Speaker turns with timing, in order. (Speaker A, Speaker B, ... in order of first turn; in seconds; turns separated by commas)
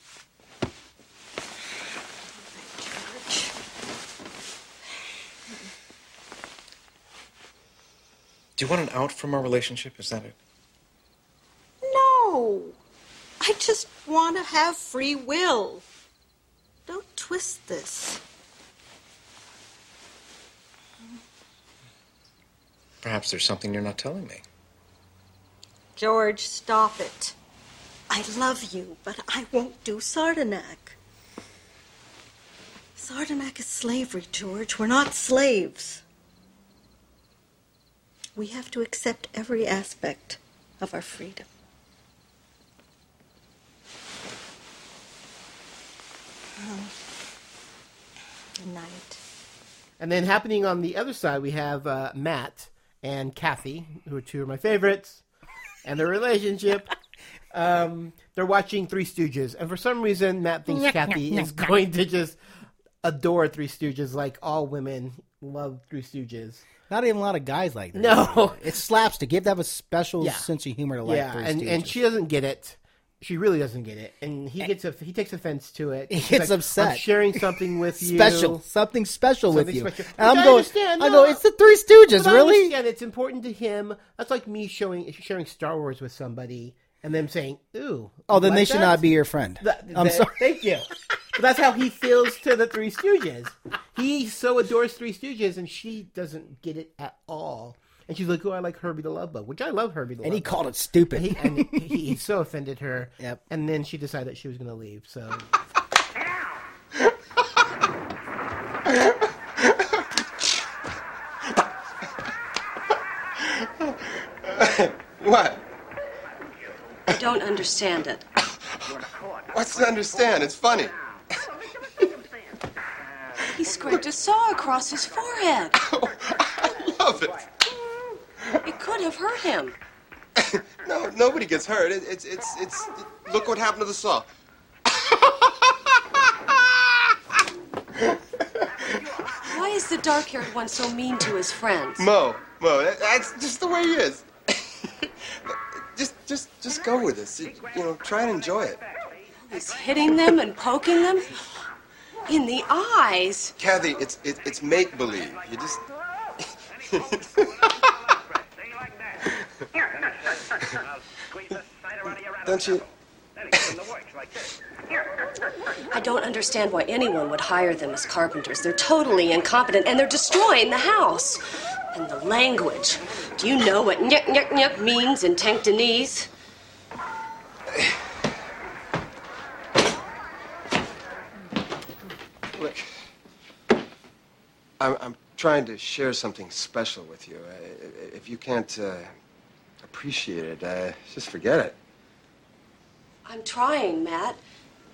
Speaker A: 2.4-3.5, Speaker B: 8.6-10.3, Speaker A: 11.8-12.8, Speaker A: 13.4-15.8, Speaker A: 16.9-18.2, Speaker B: 23.0-24.4, Speaker A: 25.9-27.3, Speaker A: 28.1-31.0, Speaker A: 33.0-36.0, Speaker A: 38.4-41.5, Speaker A: 46.6-46.9, Speaker A: 48.6-49.2, Speaker C: 50.0-55.2, Speaker C: 55.8-56.9, Speaker C: 57.5-62.4, Speaker C: 63.0-66.6, Speaker D: 66.9-72.0, Speaker C: 67.9-68.7, Speaker C: 70.2-70.5, Speaker C: 71.0-78.6, Speaker D: 76.1-82.7, Speaker C: 79.5-81.4, Speaker C: 82.1-100.6, Speaker D: 88.3-90.4, Speaker D: 100.2-102.2, Speaker C: 101.1-105.5, Speaker E: 113.4-113.9, Speaker E: 114.4-115.6, Speaker F: 117.1-118.2, Speaker E: 119.5-120.9, Speaker F: 123.5-125.7, Speaker E: 125.8-127.5, Speaker F: 128.6-129.8, Speaker E: 130.4-134.2, Speaker E: 134.9-135.9, Speaker E: 136.5-137.0, Speaker F: 139.5-142.1, Speaker E: 142.0-148.8, Speaker F: 149.5-151.3, Speaker F: 152.3-153.5, Speaker E: 153.6-155.8, Speaker E: 156.9-157.7, Speaker E: 162.4-162.8, Speaker F: 165.9-171.4, Speaker F: 171.9-176.3, Speaker E: 182.5-182.8, Speaker E: 184.8-189.1, Speaker E: 189.8-191.8, Speaker F: 193.2-194.4